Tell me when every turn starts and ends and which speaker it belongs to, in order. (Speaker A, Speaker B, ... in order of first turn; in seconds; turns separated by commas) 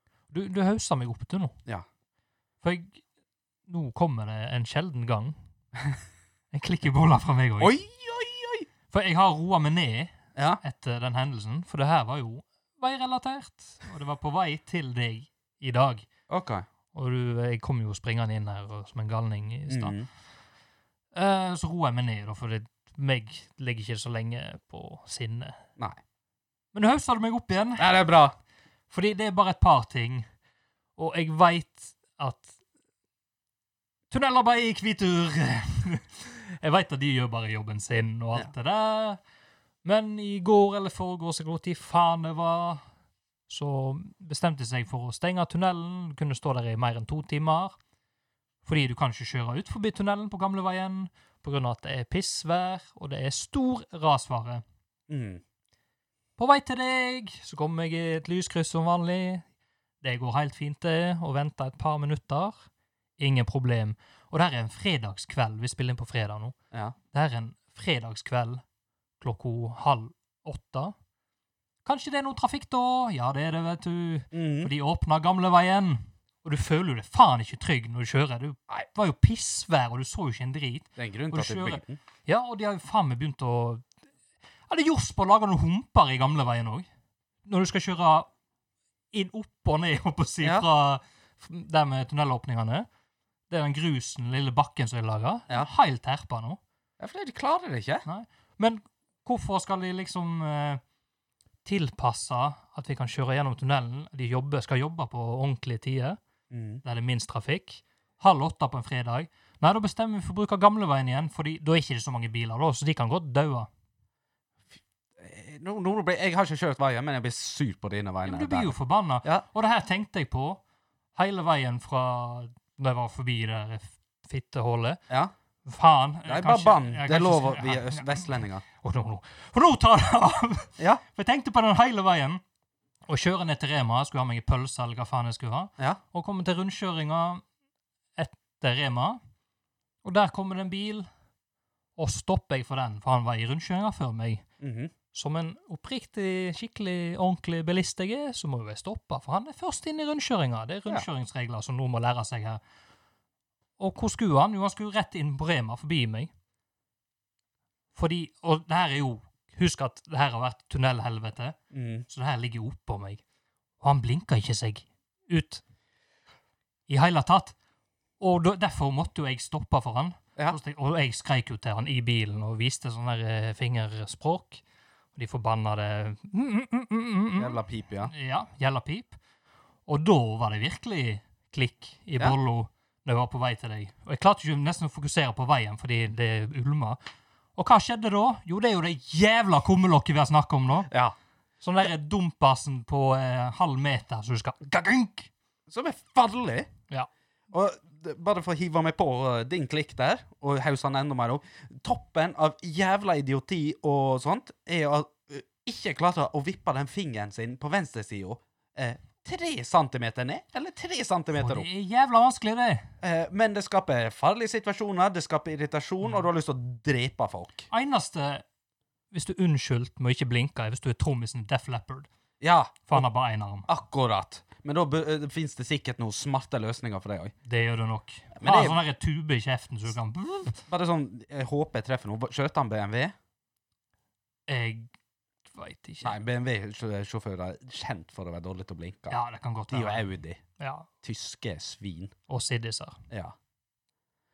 Speaker A: 0.3-1.6, Speaker A: 2.6-3.0, Speaker A: 3.7-5.4, Speaker A: 6.5-7.8, Speaker B: 7.6-8.7, Speaker A: 8.9-16.1, Speaker B: 10.4-10.6, Speaker B: 16.3-16.6, Speaker A: 16.9-20.0, Speaker B: 19.7-20.1, Speaker A: 21.1-25.6, Speaker A: 26.7-27.9, Speaker B: 27.8-28.4, Speaker A: 28.9-30.3, Speaker A: 31.0-32.6, Speaker A: 34.1-39.2, Speaker A: 39.8-42.8, Speaker A: 43.5-47.8, Speaker A: 48.6-54.6, Speaker B: 55.1-55.4, Speaker A: 56.4-59.5, Speaker A: 60.0-62.6, Speaker A: 63.2-66.5, Speaker A: 67.1-68.6, Speaker A: 69.2-70.9, Speaker A: 71.8-83.9, Speaker B: 74.3-74.7, Speaker B: 81.0-82.0, Speaker A: 84.7-86.9, Speaker A: 87.5-88.3, Speaker A: 89.1-92.9, Speaker B: 90.4-90.7, Speaker A: 93.5-96.6, Speaker B: 97.0-98.1, Speaker A: 98.0-100.8, Speaker A: 101.7-106.2, Speaker B: 106.5-106.8, Speaker A: 106.8-113.7, Speaker B: 115.2-119.5, Speaker A: 118.2-120.6, Speaker A: 121.2-125.0, Speaker A: 125.7-132.4, Speaker B: 126.3-128.6, Speaker A: 133.1-137.4, Speaker A: 138.2-139.2, Speaker A: 140.0-141.1, Speaker A: 142.0-144.4, Speaker B: 144.6-144.9, Speaker A: 145.1-152.6, Speaker A: 153.8-156.3, Speaker A: 157.9-161.6, Speaker B: 161.7-162.1, Speaker A: 162.1-163.2, Speaker A: 163.8-165.6, Speaker A: 166.9-167.6, Speaker A: 168.2-174.6, Speaker A: 175.2-179.2, Speaker B: 177.4-178.1, Speaker A: 179.9-187.0, Speaker A: 187.6-190.9, Speaker B: 190.9-191.2, Speaker A: 191.6-195.3, Speaker B: 195.7-196.7, Speaker B: 197.5-211.7, Speaker A: 211.4-212.9, Speaker B: 213.0-217.7, Speaker A: 217.7-218.4, Speaker A: 219.1-222.1, Speaker B: 222.4-223.1, Speaker A: 222.9-223.7, Speaker B: 223.7-227.3, Speaker A: 227.4-230.7, Speaker B: 228.4-228.8, Speaker B: 230.7-233.1, Speaker A: 234.5-234.9, Speaker A: 235.5-236.2, Speaker B: 236.0-240.4, Speaker A: 239.1-240.9, Speaker B: 241.0-242.1, Speaker A: 242.3-243.0, Speaker B: 243.1-243.3